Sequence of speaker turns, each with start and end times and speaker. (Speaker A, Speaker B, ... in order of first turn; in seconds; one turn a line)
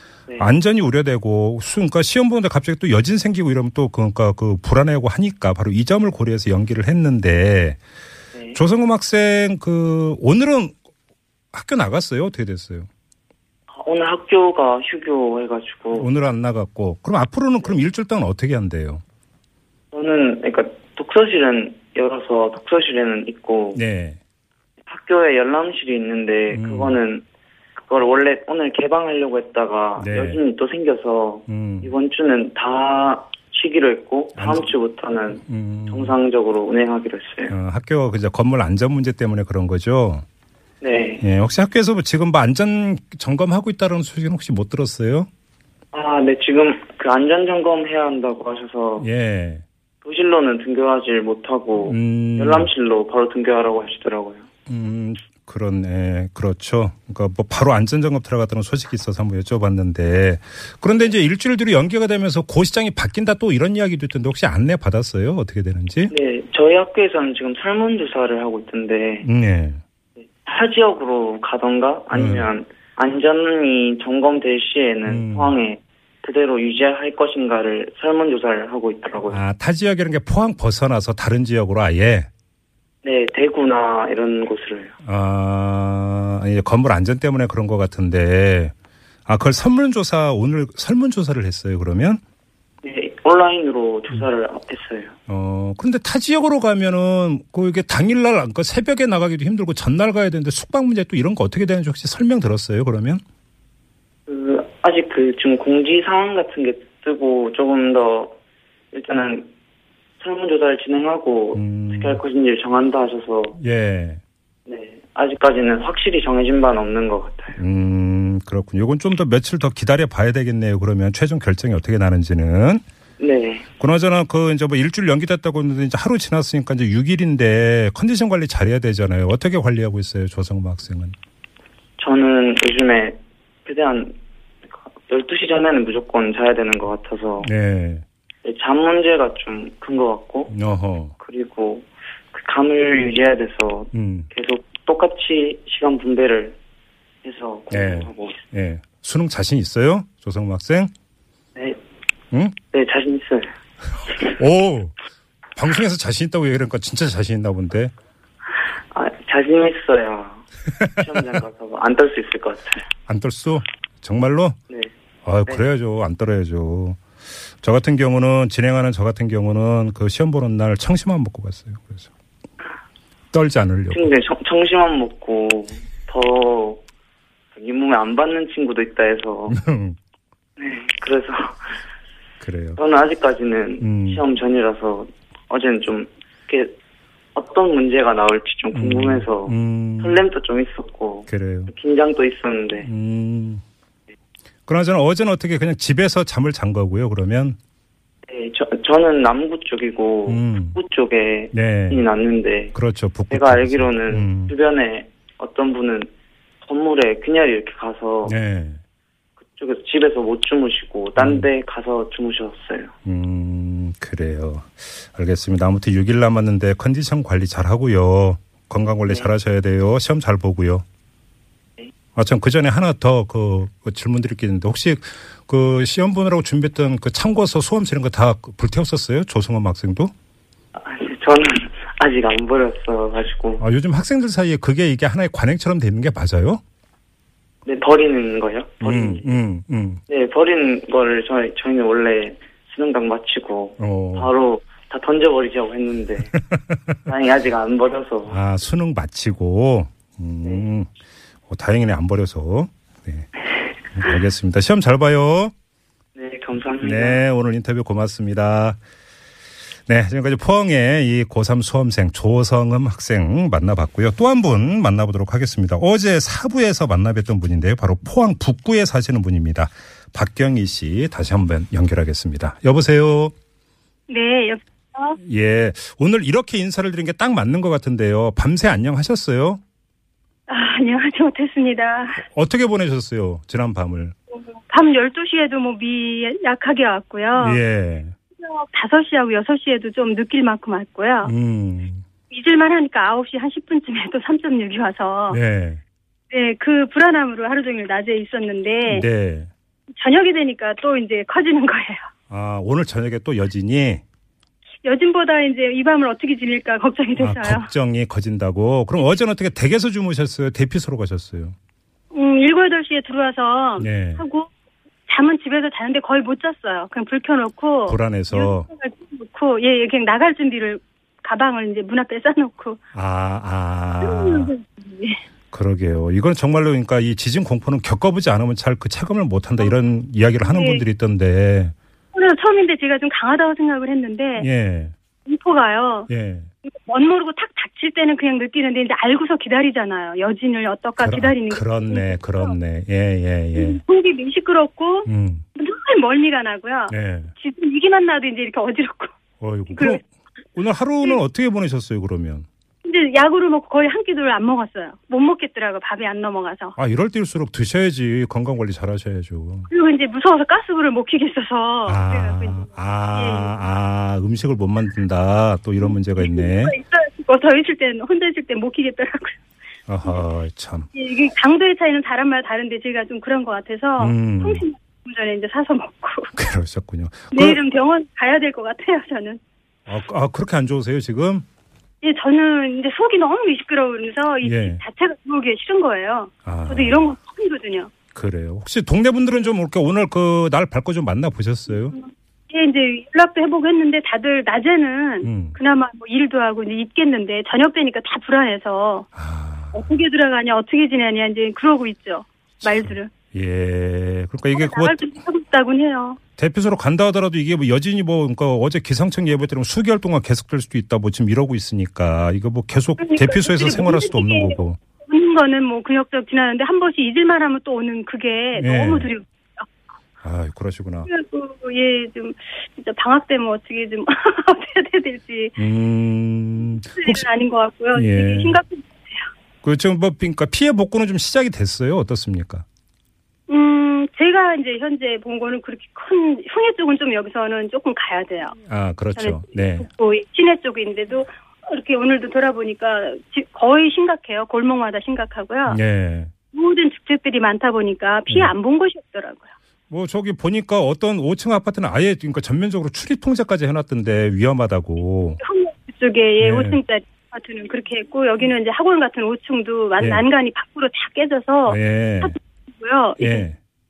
Speaker A: 0.4-7.8
Speaker A: 8.5-10.8
Speaker A: 11.5-12.9
Speaker B: 13.7-16.1
Speaker A: 15.9-19.0
Speaker B: 19.9-23.8
Speaker A: 23.7-24.2
Speaker B: 24.9-27.2
Speaker A: 26.5-27.0
Speaker B: 27.8-37.5
Speaker A: 30.0-30.4
Speaker A: 31.5-31.9
Speaker A: 34.4-34.7
Speaker A: 35.3-36.1
Speaker A: 37.5-40.2
Speaker B: 40.8-41.2
Speaker A: 41.2-45.3
Speaker B: 45.9-49.1
Speaker A: 49.0-49.6
Speaker B: 50.0-54.5
Speaker A: 51.8-52.7
Speaker A: 54.7-66.1
Speaker B: 66.1-69.3
Speaker A: 69.2-69.8
Speaker B: 70.2-79.4
Speaker A: 72.1-72.5
Speaker A: 75.1-75.5
Speaker A: 79.3-82.3
Speaker B: 83.0-84.9
Speaker A: 85.0-88.7
Speaker A: 89.2-92.2
Speaker B: 92.8-95.1
Speaker A: 95.3-103.2
Speaker B: 104.3-108.4
Speaker B: 108.9-109.5
Speaker B: 110.2-113.6
Speaker A: 111.5-112.2
Speaker A: 113.6-114.2
Speaker B: 114.7-117.6
Speaker A: 117.6-122.8
Speaker B: 123.2-123.7
Speaker A: 123.8-131.1
Speaker B: 132.0-134.2
Speaker B: 134.9-137.5
Speaker A: 137.4-138.0
Speaker B: 138.4-140.5
Speaker A: 140.5-141.1
Speaker B: 141.2-146.6
Speaker A: 143.9-144.3
Speaker B: 147.2-148.4
Speaker A: 147.7-150.9
Speaker B: 152.7-153.5
Speaker A: 154.2-154.9
Speaker A: 155.6-157.9
Speaker B: 158.9-160.4
Speaker B: 161.0-162.9
Speaker A: 163.1-164.6
Speaker A: 165.2-167.0
Speaker A: 167.6-172.1
Speaker A: 173.3-174.1
Speaker B: 173.9-176.8
Speaker B: 177.5-179.6
Speaker A: 179.5-180.0
Speaker B: 180.6-181.6
Speaker A: 182.4-182.8
Speaker B: 182.8-186.7
Speaker A: 183.8-184.2
Speaker B: 187.3-192.9
Speaker A: 188.7-190.2
Speaker A: 191.3-191.7
Speaker A: 192.8-193.6
Speaker A: 194.7-197.6
Speaker B: 198.3-202.7
Speaker A: 200.3-200.8
Speaker A: 201.5-202.1
Speaker A: 202.7-204.5
Speaker B: 203.3-206.1
Speaker B: 206.6-208.3
Speaker A: 208.2-208.8
Speaker B: 209.5-212.9
Speaker A: 211.2-211.5
Speaker A: 213.0-220.8
Speaker A: 222.1-230.1
Speaker B: 230.7-233.6
Speaker A: 233.6-236.6
Speaker B: 237.6-239.3
Speaker A: 238.8-240.0
Speaker B: 240.1-246.4
Speaker A: 243.8-244.3
Speaker A: 246.5-247.0
Speaker B: 247.1-248.4
Speaker A: 248.3-250.9
Speaker A: 251.5-253.3
Speaker A: 253.9-255.5
Speaker B: 256.1-257.2
Speaker A: 256.8-258.8
Speaker A: 259.9-273.3
Speaker C: 274.1-275.2
Speaker A: 275.2-279.6
Speaker C: 280.5-282.2
Speaker A: 282.2-284.1
Speaker C: 284.3-287.6
Speaker A: 287.4-288.1
Speaker C: 288.4-291.3
Speaker A: 291.2-292.0
Speaker C: 292.3-295.4
Speaker A: 295.3-295.8
Speaker C: 296.3-299.0
Speaker A: 298.9-299.5
Speaker C: 300.0-302.1
Speaker A: 302.3-304.0
Speaker C: 304.8-307.7
Speaker A: 307.2-311.6
Speaker C: 312.1-314.5
Speaker A: 313.8-314.2
Speaker C: 315.1-322.8
Speaker A: 317.9-318.7
Speaker A: 322.9-324.5
Speaker C: 324.0-325.2
Speaker A: 325.5-331.7
Speaker C: 330.4-330.8
Speaker C: 332.1-334.5
Speaker A: 334.4-334.9
Speaker C: 335.2-336.1
Speaker A: 336.1-336.5
Speaker C: 336.9-342.5
Speaker A: 341.0-343.8
Speaker C: 343.5-349.1
Speaker A: 345.1-345.4
Speaker A: 346.9-347.3
Speaker A: 349.4-350.0
Speaker C: 349.7-350.0
Speaker A: 350.5-352.5
Speaker C: 352.8-356.7
Speaker A: 356.8-359.7
Speaker C: 359.7-363.6
Speaker A: 361.9-366.8
Speaker C: 365.8-369.4
Speaker A: 369.9-370.9
Speaker C: 370.9-376.3
Speaker A: 374.0-374.6
Speaker A: 376.3-377.6
Speaker C: 377.3-379.4
Speaker A: 379.9-381.4
Speaker C: 382.0-387.9
Speaker A: 384.4-384.8
Speaker A: 386.4-387.1
Speaker A: 388.1-391.9
Speaker C: 391.9-399.1
Speaker A: 395.2-395.6
Speaker A: 399.1-399.9
Speaker C: 399.7-403.1
Speaker A: 402.6-405.1
Speaker C: 404.5-406.2
Speaker A: 406.4-414.8
Speaker C: 413.0-419.7
Speaker A: 418.5-419.1
Speaker A: 420.2-421.1
Speaker C: 421.1-425.5
Speaker A: 425.6-427.3
Speaker C: 427.0-429.3
Speaker A: 427.9-428.6
Speaker A: 429.6-432.6
Speaker C: 433.5-438.6
Speaker A: 438.6-439.9
Speaker C: 439.2-445.8
Speaker A: 445.7-446.3
Speaker C: 446.5-449.5
Speaker A: 449.9-455.4
Speaker C: 455.4-463.4
Speaker A: 456.4-456.8
Speaker A: 461.6-462.4
Speaker A: 463.2-463.6